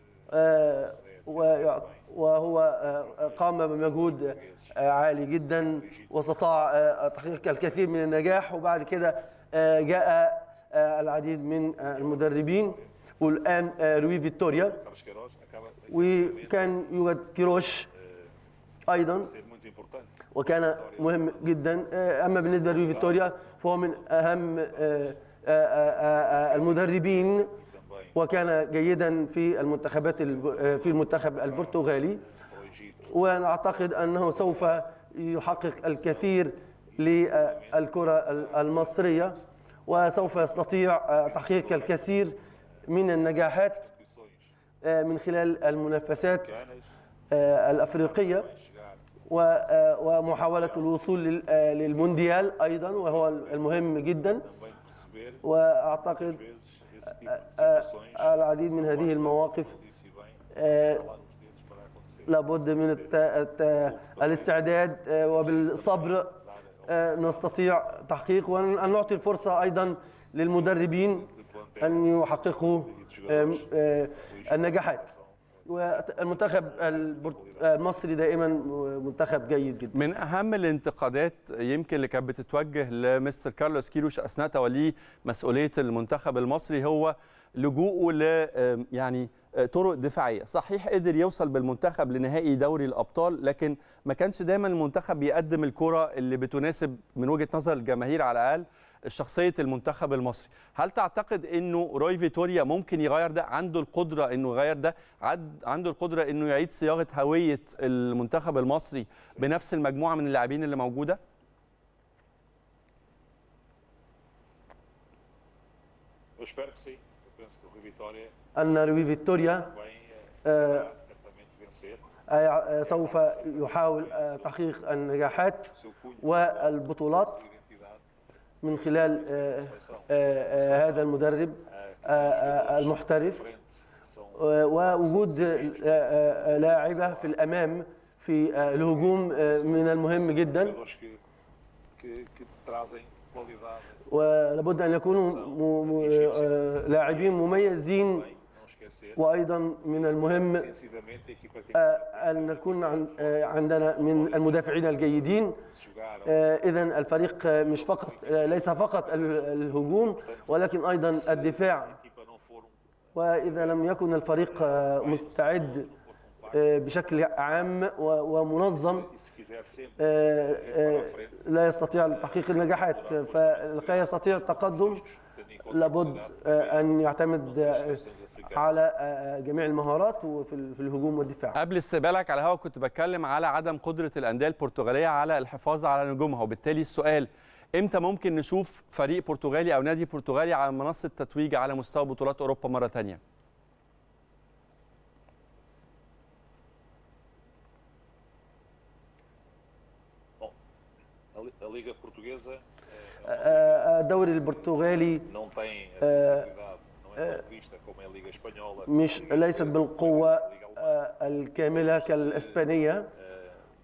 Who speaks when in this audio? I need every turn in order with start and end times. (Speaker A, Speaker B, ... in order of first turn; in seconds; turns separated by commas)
Speaker A: 0.3-14.8, Speaker B: 0.4-2.1, Speaker B: 3.0-4.9, Speaker B: 5.5-6.2, Speaker B: 11.8-12.9, Speaker B: 14.5-16.9, Speaker A: 15.9-17.9, Speaker B: 17.9-18.3, Speaker A: 18.9-19.3, Speaker B: 19.1-21.7, Speaker A: 20.3-27.6, Speaker B: 22.3-25.2, Speaker B: 25.8-28.7, Speaker A: 28.1-32.2, Speaker B: 30.0-34.8, Speaker A: 33.1-43.9, Speaker B: 35.4-39.5, Speaker B: 40.2-44.4, Speaker A: 44.8-46.6, Speaker B: 46.2-46.9, Speaker A: 47.3-48.5, Speaker B: 47.9-49.0, Speaker A: 49.3-54.5, Speaker B: 49.6-51.2, Speaker B: 52.8-55.4, Speaker A: 55.4-56.4, Speaker B: 56.0-67.6, Speaker A: 57.2-59.8, Speaker A: 60.5-61.0, Speaker A: 62.3-71.3, Speaker B: 70.5-77.7, Speaker A: 71.8-75.1, Speaker A: 75.7-80.0, Speaker C: 79.9-111.2, Speaker B: 116.4-118.3, Speaker A: 118.5-119.7, Speaker B: 119.4-122.1, Speaker A: 120.4-120.9, Speaker A: 122.3-127.4, Speaker B: 122.8-128.0, Speaker A: 128.6-133.5, Speaker B: 128.7-131.1, Speaker B: 131.7-137.5, Speaker A: 134.3-140.8, Speaker B: 138.7-141.2, Speaker B: 142.0-144.0, Speaker A: 144.1-148.2, Speaker B: 145.0-149.2, Speaker A: 149.2-150.7, Speaker B: 149.8-156.5, Speaker A: 151.7-155.6, Speaker A: 156.2-161.9, Speaker B: 157.4-167.0, Speaker A: 163.1-165.9, Speaker A: 166.5-169.1, Speaker B: 168.6-178.7, Speaker A: 170.0-175.0, Speaker A: 175.7-178.0, Speaker A: 178.5-181.6, Speaker C: 181.5-193.2, Speaker B: 201.3-211.0, Speaker A: 203.2-205.3, Speaker A: 206.0-206.5, Speaker A: 208.9-213.1, Speaker B: 211.6-213.6